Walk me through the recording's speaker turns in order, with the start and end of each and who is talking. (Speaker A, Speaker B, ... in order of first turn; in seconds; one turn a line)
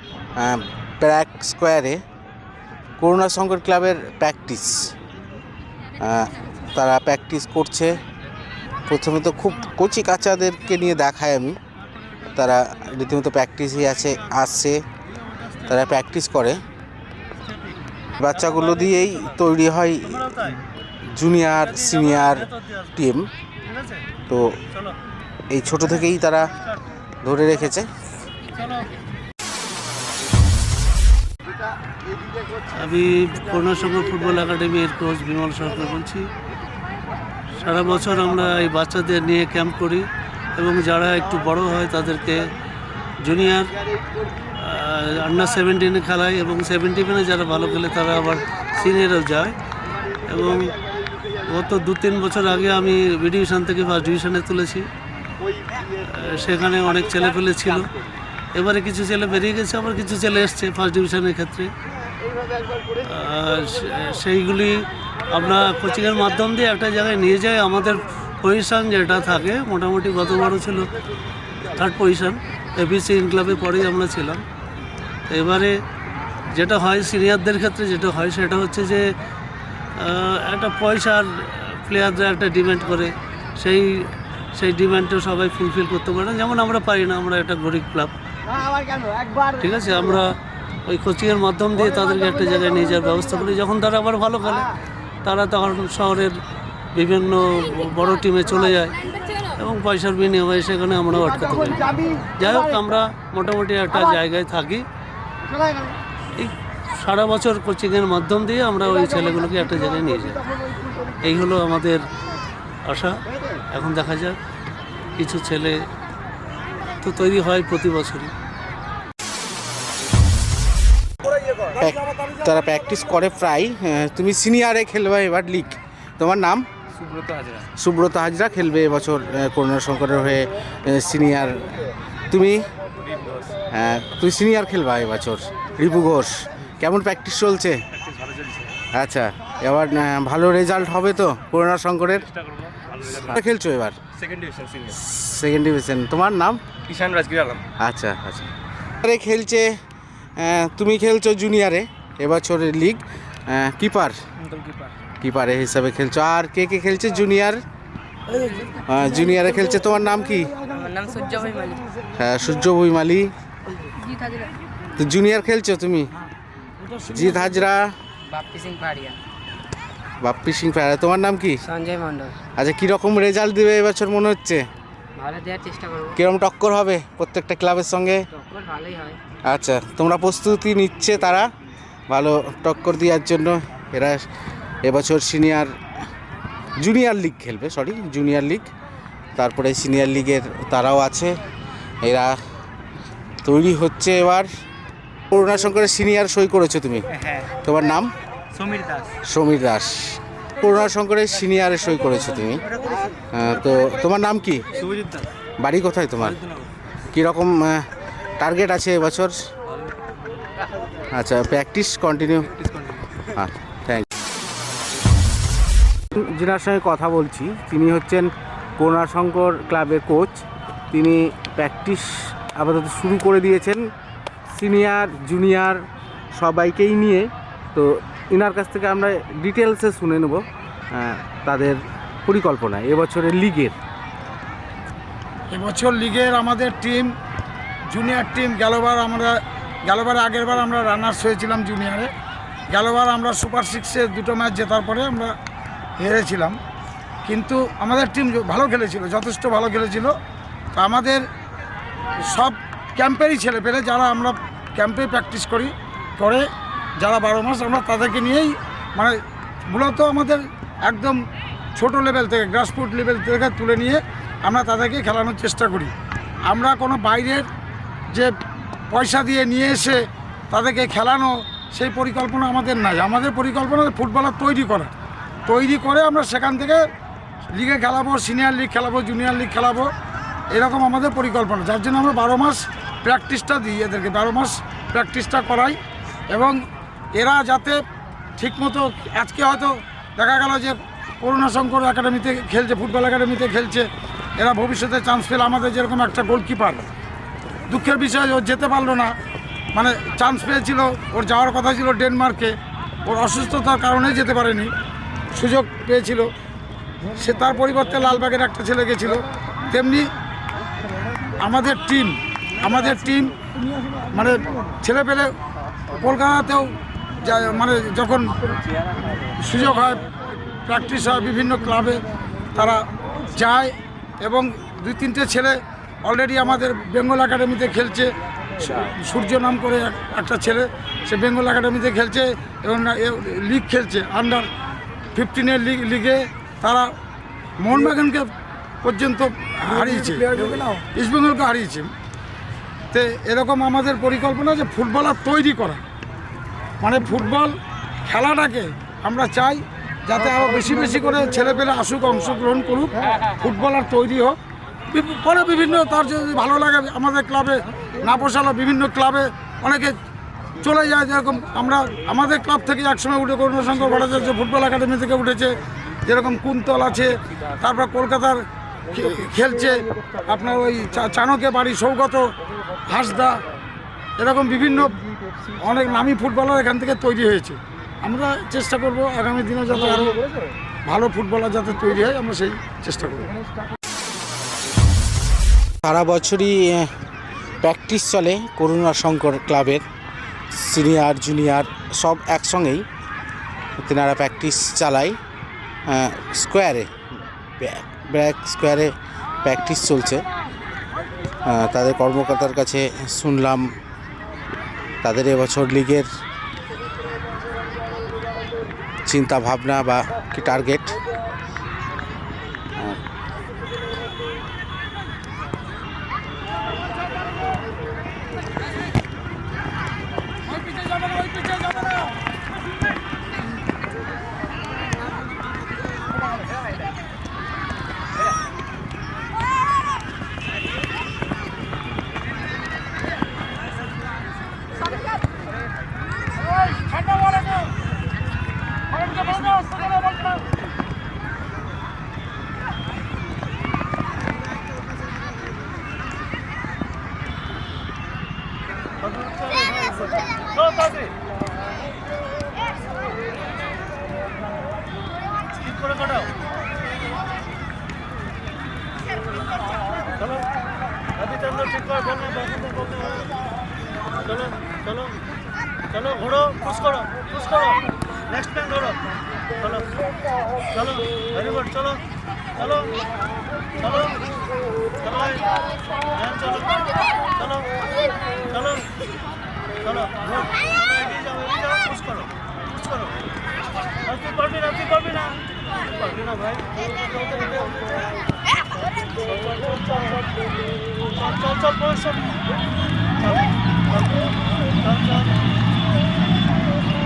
Speaker A: 0.4-2.0
Speaker A: 3.0-4.9
Speaker A: 6.0-8.0
Speaker A: 8.9-11.6
Speaker A: 12.3-14.8
Speaker A: 15.7-16.6
Speaker A: 18.2-20.4
Speaker B: 18.3-19.4
Speaker B: 20.3-20.6
Speaker A: 21.1-23.3
Speaker B: 21.7-22.9
Speaker B: 23.6-24.0
Speaker A: 24.3-24.6
Speaker A: 25.5-26.5
Speaker A: 27.2-27.9
Speaker B: 28.5-28.9
Speaker B: 32.7-36.3
Speaker B: 37.5-42.5
Speaker B: 43.2-43.7
Speaker B: 44.6-49.5
Speaker B: 50.2-50.8
Speaker B: 51.4-54.9
Speaker B: 55.9-57.9
Speaker B: 58.5-61.7
Speaker B: 63.0-70.9
Speaker B: 71.7-74.4
Speaker B: 75.3-75.8
Speaker B: 76.5-79.1
Speaker B: 80.0-88.1
Speaker B: 89.4-90.3
Speaker B: 90.8-94.7
Speaker B: 95.2-96.4
Speaker B: 96.9-104.8
Speaker B: 106.3-110.5
Speaker B: 111.2-112.0
Speaker B: 112.8-114.4
Speaker B: 115.2-115.8
Speaker B: 117.0-118.3
Speaker A: 121.7-126.7
Speaker C: 127.0-127.6
Speaker A: 127.8-131.8
Speaker A: 132.3-132.7
Speaker C: 133.1-133.5
Speaker A: 133.7-137.8
Speaker C: 138.2-138.7
Speaker A: 138.9-142.3
Speaker A: 143.1-144.0
Speaker C: 144.2-144.9
Speaker A: 144.8-146.6
Speaker C: 146.9-147.6
Speaker A: 147.8-148.5
Speaker A: 149.0-149.8
Speaker A: 150.4-154.2
Speaker A: 155.2-157.6
Speaker D: 158.4-158.7
Speaker A: 158.8-160.6
Speaker D: 160.7-161.9
Speaker A: 162.1-163.3
Speaker D: 163.8-164.5
Speaker A: 165.0-166.1
Speaker A: 167.1-167.9
Speaker D: 168.2-169.2
Speaker A: 170.2-171.6
Speaker D: 171.6-172.4
Speaker A: 172.6-174.7
Speaker D: 175.2-176.2
Speaker A: 176.2-178.2
Speaker D: 178.3-179.2
Speaker A: 179.4-181.5
Speaker A: 182.1-184.2
Speaker A: 184.8-185.7
Speaker A: 186.8-188.7
Speaker A: 189.3-191.4
Speaker A: 192.0-192.4
Speaker A: 193.4-194.5
Speaker A: 195.3-198.1
Speaker C: 198.6-199.1
Speaker A: 199.2-202.6
Speaker A: 203.3-204.7
Speaker C: 204.8-205.3
Speaker A: 205.6-206.4
Speaker A: 207.1-209.4
Speaker A: 211.1-212.7
Speaker A: 213.2-214.1
Speaker A: 216.1-223.9
Speaker A: 224.5-233.8
Speaker E: 235.5-237.1
Speaker E: 237.9-242.1
Speaker E: 242.7-245.3
Speaker E: 246.0-246.6
Speaker E: 247.2-250.1
Speaker E: 250.7-251.2
Speaker E: 252.2-256.4
Speaker E: 257.0-259.1
Speaker E: 259.7-261.2
Speaker E: 261.7-265.9
Speaker E: 266.5-267.5
Speaker E: 268.9-270.0
Speaker E: 270.5-274.9
Speaker E: 275.4-276.8
Speaker E: 277.5-279.9
Speaker E: 280.5-285.8
Speaker E: 286.3-286.6
Speaker E: 287.1-287.8
Speaker E: 288.4-296.9
Speaker E: 297.7-299.1
Speaker E: 299.7-304.7
Speaker E: 305.3-306.3
Speaker E: 307.1-310.1
Speaker E: 311.4-313.3
Speaker E: 314.1-315.3
Speaker E: 315.9-318.4
Speaker E: 319.4-320.1
Speaker E: 320.6-322.8
Speaker E: 323.3-334.5
Speaker E: 335.1-336.9
Speaker E: 337.6-338.3
Speaker E: 338.8-341.9
Speaker E: 342.9-345.8
Speaker E: 346.8-354.4
Speaker E: 354.9-359.9
Speaker E: 360.6-365.5
Speaker E: 366.0-372.3
Speaker E: 372.9-373.4
Speaker E: 374.2-375.0
Speaker E: 375.6-380.2
Speaker E: 380.9-383.3
Speaker A: 385.8-386.9
Speaker A: 387.6-389.8
Speaker A: 390.5-392.9
Speaker A: 393.8-395.2
Speaker A: 395.9-396.9
Speaker A: 397.6-400.2
Speaker A: 401.4-403.7
Speaker A: 405.0-406.1
Speaker A: 409.1-411.0
Speaker B: 449.0-451.1
Speaker B: 455.6-456.3
Speaker B: 460.2-460.4
Speaker B: 461.2-463.3
Speaker B: 464.2-465.2
Speaker B: 465.9-469.0
Speaker B: 469.6-470.0
Speaker B: 470.7-472.0
Speaker B: 472.5-473.0
Speaker B: 473.8-474.2
Speaker B: 475.0-475.6
Speaker B: 476.1-477.7
Speaker B: 478.5-478.9
Speaker B: 479.8-483.1
Speaker B: 484.0-487.9
Speaker B: 491.1-492.3
Speaker B: 494.8-495.3